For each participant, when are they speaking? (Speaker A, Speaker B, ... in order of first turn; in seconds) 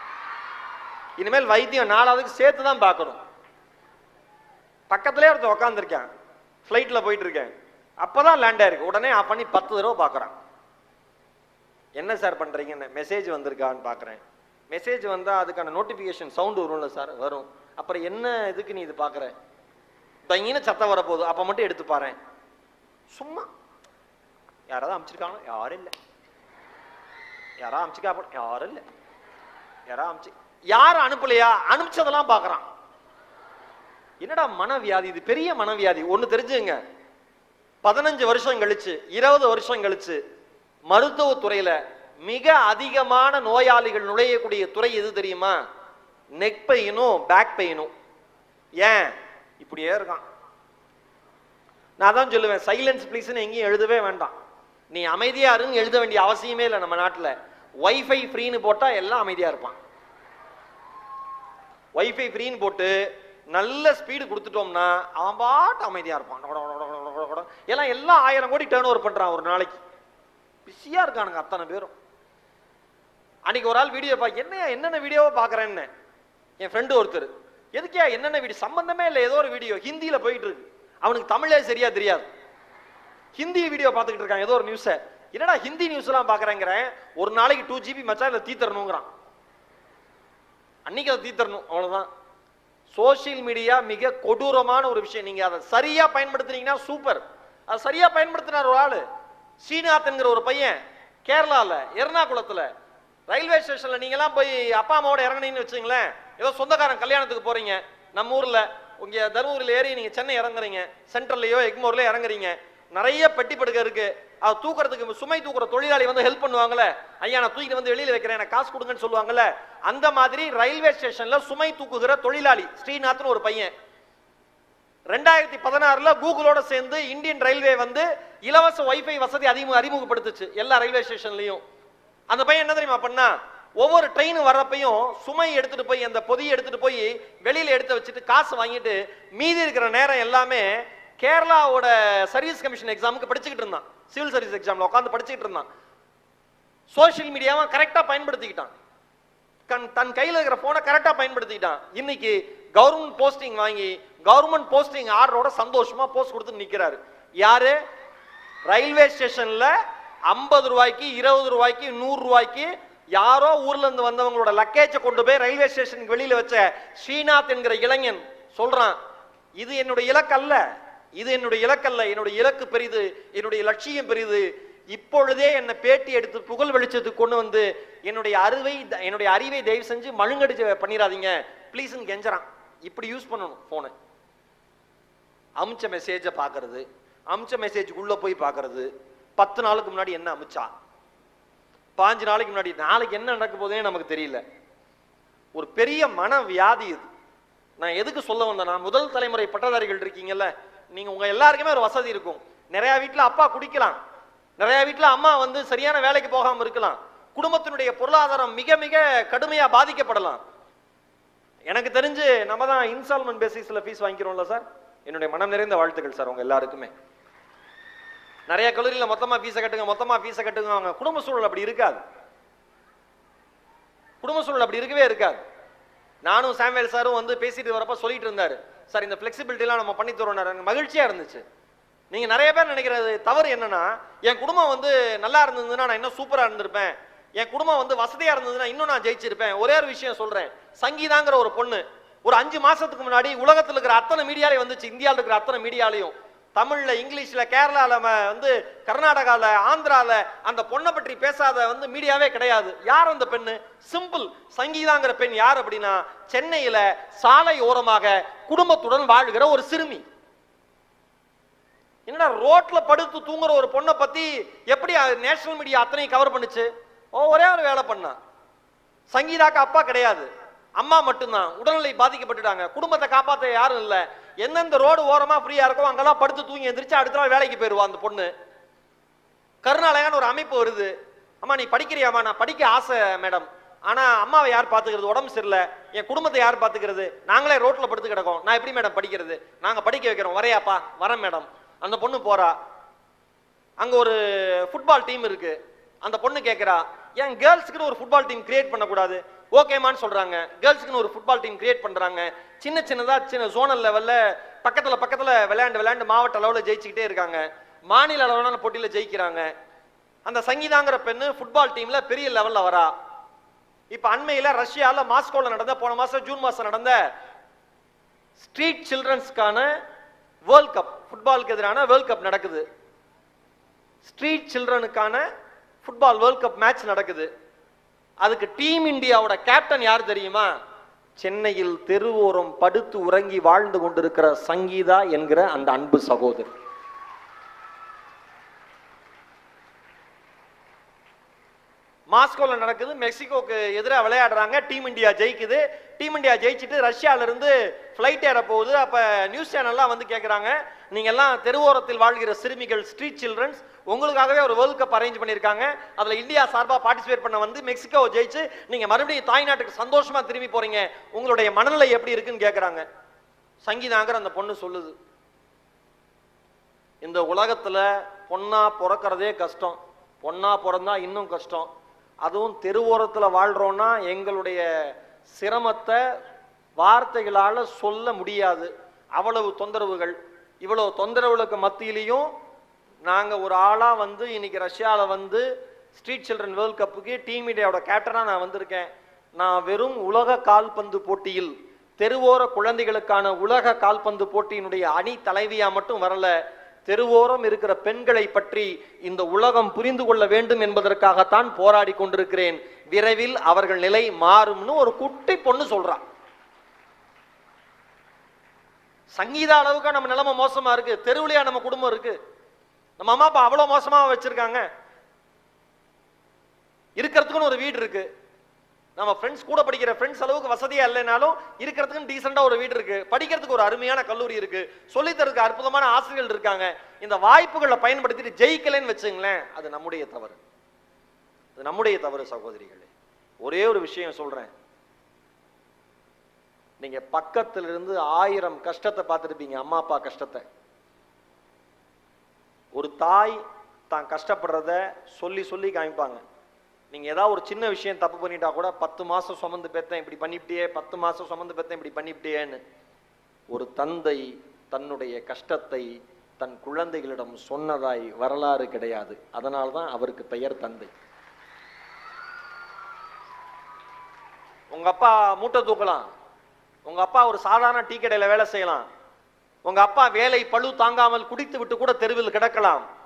Speaker A: 1.2-3.2, 4.9-6.1, 6.7-10.3, 12.0-19.3, 20.3-22.2, 23.1-23.5, 24.7-25.9, 27.6-28.8, 29.9-32.7, 34.2-36.8, 37.8-40.2, 40.9-45.6, 46.4-47.9, 48.8-50.2, 52.0-54.3, 54.9-59.8, 62.0-63.0, 63.5-69.8, 70.7-71.9, 73.5-75.9, 76.6-82.3, 83.4-89.1, 90.9-92.1, 92.9-99.0, 99.6-102.7, 103.3-123.7, 125.1-131.6, 132.3-145.7, 146.9-148.7, 149.7-157.8, 158.7-159.7, 160.3-169.0, 169.6-170.6, 171.2-183.9, 185.6-190.7, 192.0-194.4, 195.6-197.1, 197.8-204.0, 204.6-210.4, 211.7-216.9, 218.5-222.0, 224.2-225.4, 226.2-231.4, 232.1-260.0, 262.1-268.2, 269.1-278.3, 279.6-292.5, 293.8-309.5, 310.3-312.9, 313.9-317.0, 318.4-319.7, 320.5-322.6, 324.0-325.2, 325.8-327.3, 328.2-330.5, 331.2-336.5, 342.1-362.8, 363.6-364.9, 367.0-371.7, 372.2-376.0, 376.8-382.3, 383.1-406.0, 409.1-412.2, 413.0-414.7, 417.0-418.1, 419.0-430.4, 431.6-432.9, 433.4-434.5, 436.8-440.4, 442.8-446.2, 446.9-452.6, 453.5-460.9, 464.7-466.1, 466.9-468.9, 469.7-472.9